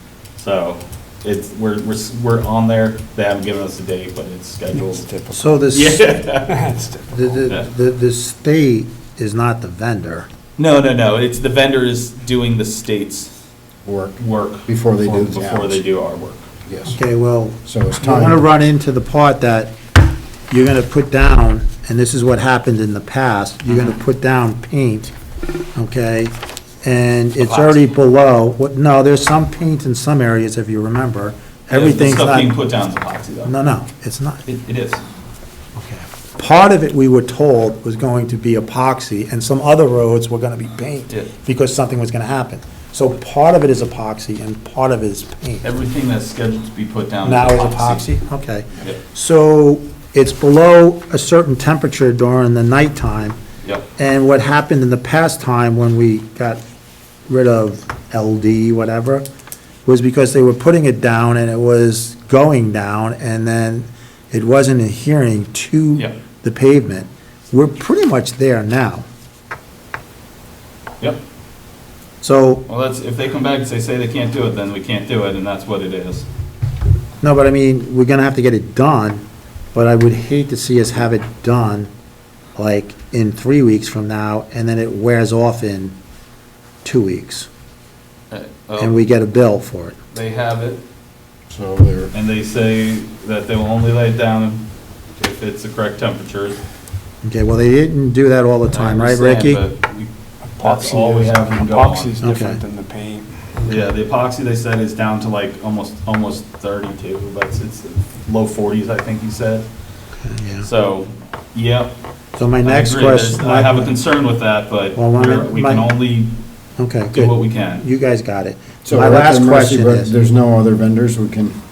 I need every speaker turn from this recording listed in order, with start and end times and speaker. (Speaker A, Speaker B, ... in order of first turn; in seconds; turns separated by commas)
Speaker A: 0.4-5.0, Speaker B: 4.8-5.6, Speaker C: 5.3-6.1, Speaker A: 5.7-6.6, Speaker B: 6.5-7.4, Speaker C: 7.1-10.3, Speaker A: 10.6-13.4, Speaker D: 13.8-15.8, Speaker A: 14.2-16.5, Speaker D: 16.7-17.0, Speaker C: 16.9-19.7, Speaker D: 17.6-18.4, Speaker C: 20.5-25.1, Speaker A: 23.7-24.0, Speaker C: 25.8-32.7, Speaker A: 27.4-27.9, Speaker A: 31.7-33.6, Speaker C: 33.4-34.4, Speaker A: 34.5-35.0, Speaker C: 35.8-45.7, Speaker A: 45.6-48.1, Speaker C: 47.2-53.4, Speaker A: 53.6-53.9, Speaker C: 54.0-56.6, Speaker C: 57.3-59.3, Speaker C: 59.9-69.1, Speaker C: 72.2-72.7, Speaker A: 72.7-76.3, Speaker C: 77.2-81.9, Speaker C: 82.6-86.0, Speaker C: 86.8-87.5, Speaker A: 88.3-89.0, Speaker C: 88.8-90.0, Speaker A: 90.1-90.8, Speaker D: 91.5-92.1, Speaker A: 92.1-96.6, Speaker C: 97.2-99.6, Speaker A: 98.7-102.2, Speaker B: 100.6-103.8, Speaker C: 102.2-102.6, Speaker A: 103.6-109.7, Speaker C: 110.2-110.7, Speaker A: 110.6-112.0, Speaker C: 112.4-114.0, Speaker A: 112.6-116.4, Speaker C: 114.9-115.9, Speaker C: 116.8-120.1, Speaker A: 117.1-117.9, Speaker D: 118.8-121.6